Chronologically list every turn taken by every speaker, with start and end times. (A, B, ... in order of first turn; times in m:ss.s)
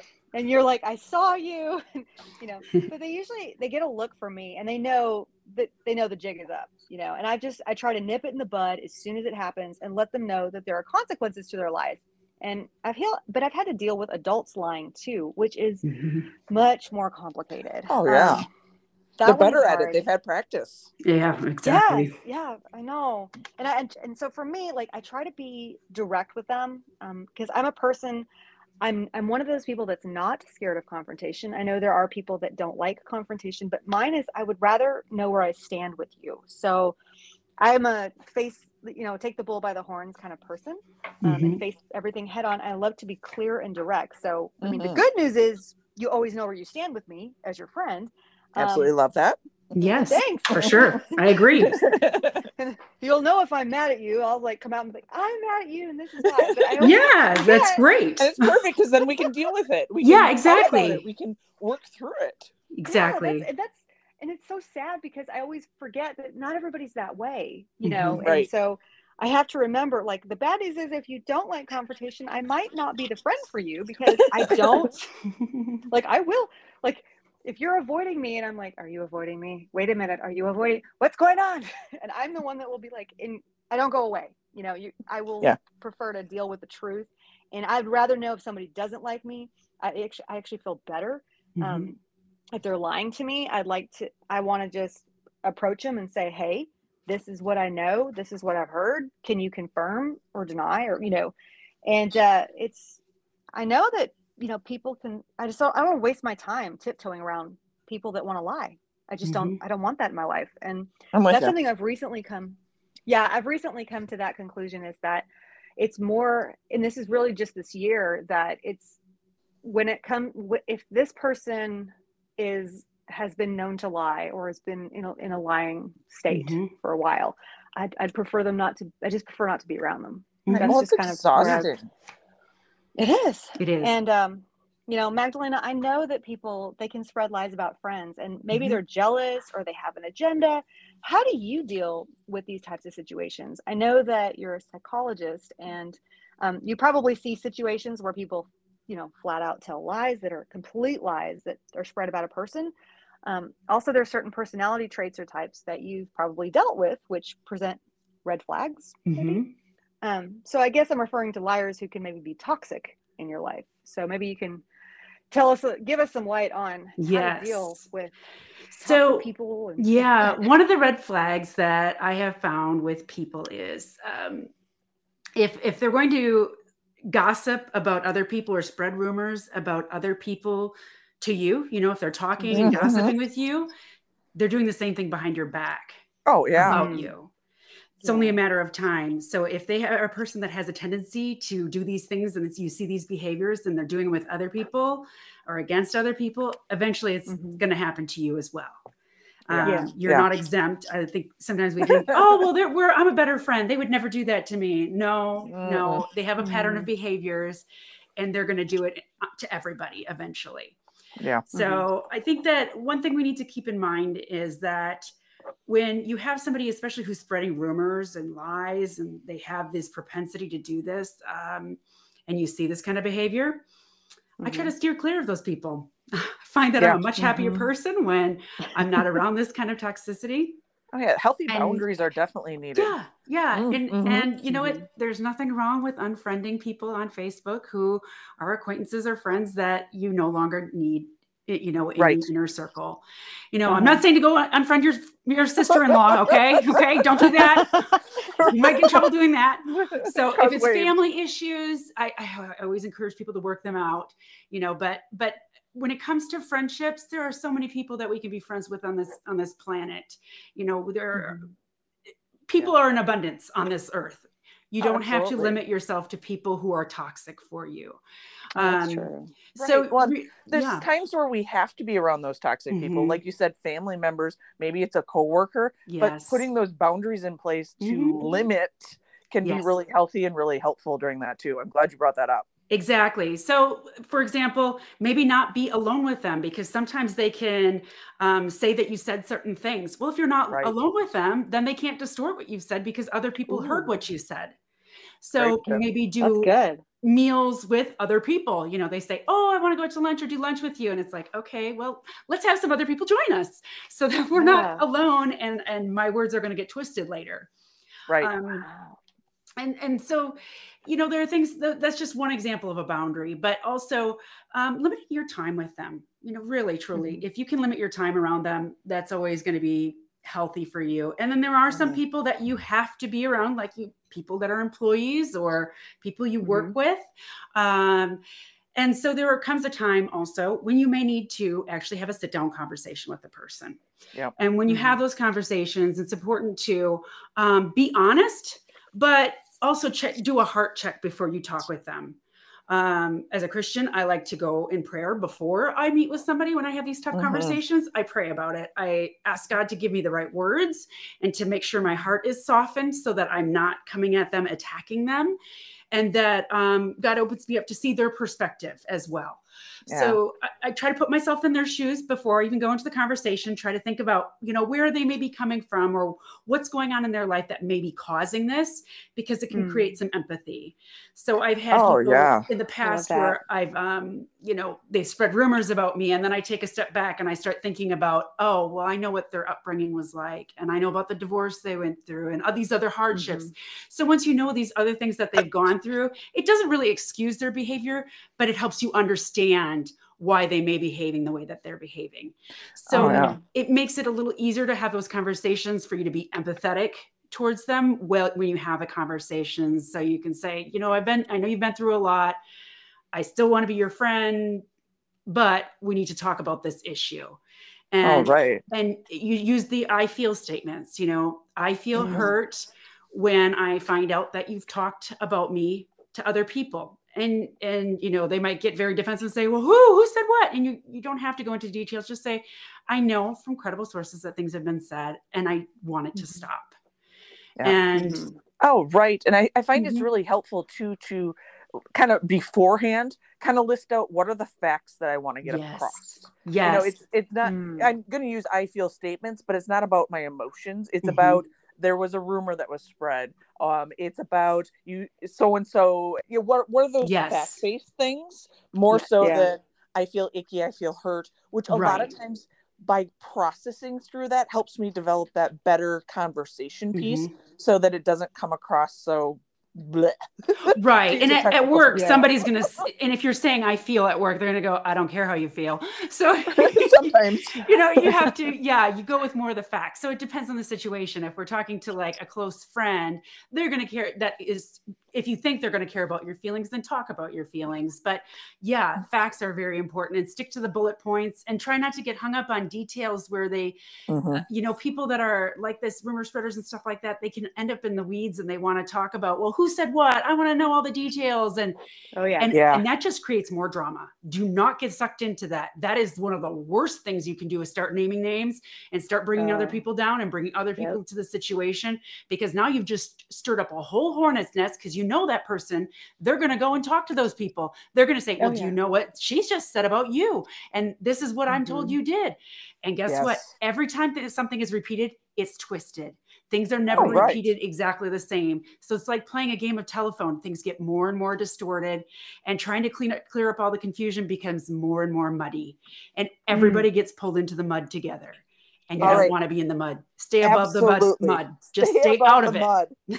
0:00.3-0:15.8 A
0:15.8-0:16.3 B
0:16.5-0:18.5 A
0:17.9-0:18.5 C
0:19.2-0:20.0 A
0:19.2-0:20.9 C
0:21.0-0:22.1 B
0:21.6-0:28.3 A
0:28.8-0:37.0 A
0:37.6-0:48.9 A
0:41.2-0:41.6 B
0:44.6-0:45.0 C
0:48.6-0:49.4 C
0:49.7-0:51.8 B
0:50.0-0:51.2 A
0:50.6-0:51.0 C
0:51.5-0:52.5 C
0:52.6-0:57.8 A
0:56.4-0:56.9 C
0:56.8-0:58.5 B
0:58.2-1:02.5 C
1:00.0-1:01.0 B
1:02.7-1:03.4 B
1:02.9-1:15.1 A
1:07.8-1:08.2 B
1:08.2-1:08.5 C
1:15.4-1:15.8 B
1:15.9-1:32.0 A
1:31.6-1:31.9 B
1:32.5-1:41.3 A
1:41.9-1:43.0 A
1:43.6-1:59.0 A
1:49.2-1:49.6 B
1:51.1-1:51.5 C
1:59.6-2:11.7 A
2:06.3-2:06.7 B
2:10.5-2:10.7 B
2:10.5-2:11.9 C
2:13.0-2:32.7 A
2:13.6-2:14.0 B
2:18.5-2:18.8 B
2:33.2-2:39.4 A
2:39.1-2:39.5 B
2:40.0-2:44.6 A
2:45.3-2:48.2 A
2:47.0-2:47.8 B
2:48.7-2:54.5 B
2:48.8-2:50.5 A
2:55.4-2:56.5 B
2:57.1-3:03.7 B
3:02.4-3:02.9 A
3:02.5-3:03.1 C
3:04.4-3:06.0 B
3:06.3-3:06.9 C
3:06.6-3:07.1 A
3:06.6-3:07.3 B
3:08.0-3:08.4 A
3:08.0-3:18.8 B
3:17.3-3:17.6 A
3:19.5-3:27.6 B
3:19.5-3:20.4 C
3:19.6-3:19.9 A
3:25.4-3:26.1 C
3:26.4-3:26.9 A
3:28.2-3:30.8 B
3:31.2-3:31.5 C
3:31.5-3:35.1 B
3:31.5-3:31.8 A
3:35.7-3:43.6 B
3:44.4-3:44.7 A
3:44.4-3:50.6 B
3:46.8-3:47.0 C
3:47.2-3:47.7 A
3:50.9-3:53.0 C
3:51.5-3:51.8 B
3:52.8-4:21.5 B
3:53.5-3:54.3 C
4:02.0-4:02.3 C
4:03.7-4:04.0 A
4:05.7-4:06.7 C
4:08.5-4:08.9 C
4:08.5-4:08.9 A
4:09.7-4:11.0 C
4:22.5-4:28.0 B
4:24.8-4:25.6 C
4:28.6-4:30.9 B
4:28.6-4:29.3 A
4:28.6-4:42.5 C
4:32.7-4:33.2 B
4:35.9-4:36.5 B
4:37.8-4:38.4 B
4:39.4-4:39.7 B
4:42.7-4:54.6 B
4:50.5-4:50.8 C
4:53.5-4:53.9 A
4:55.2-4:56.5 B
4:55.4-4:55.8 C
4:56.2-4:56.8 A
4:57.0-5:07.5 B
5:04.4-5:04.8 A
5:08.1-5:08.4 C
5:08.2-5:08.7 B
5:08.6-5:09.0 A
5:09.6-5:28.2 B
5:17.0-5:17.2 A
5:26.4-5:26.8 A
5:28.8-5:33.8 B
5:34.4-5:42.2 B
5:34.7-5:35.0 A
5:42.7-5:55.4 B
5:47.1-5:47.6 C
5:55.9-6:32.4 B
5:59.9-6:00.2 C
6:09.5-6:09.9 A
6:11.7-6:12.5 C
6:12.8-6:13.4 A
6:23.1-6:23.5 A
6:32.9-6:42.4 B
6:32.9-6:33.4 C
6:33.0-6:33.4 A
6:43.1-6:44.6 B
6:45.3-6:47.4 B
6:47.9-7:06.7 B
6:48.0-6:48.6 C
6:52.0-6:52.3 C
6:52.0-6:52.3 A
7:07.6-7:07.8 C
7:07.6-7:08.2 B
7:08.0-7:08.4 A
7:08.6-7:11.4 C
7:09.8-7:10.1 B
7:12.0-7:42.4 C
7:15.4-7:17.0 B
7:17.4-7:17.9 A
7:21.0-7:21.4 B
7:27.0-7:27.6 B
7:28.9-7:29.3 B
7:29.2-7:29.5 A
7:31.7-7:32.1 B
7:36.9-7:37.3 B
7:40.8-8:03.8 B
7:41.9-7:42.3 A
7:46.5-7:48.4 C
8:04.1-8:04.4 C
8:04.3-8:11.8 B
8:12.1-8:12.5 A
8:12.4-8:52.7 B
8:12.5-8:12.8 C
8:19.4-8:19.8 A
8:28.4-8:28.8 A
8:31.6-8:32.0 A
8:33.1-8:33.5 C
8:36.9-8:37.3 A
8:36.9-8:37.5 C
8:49.0-8:49.3 A
8:49.0-8:49.4 C
8:50.4-8:52.9 C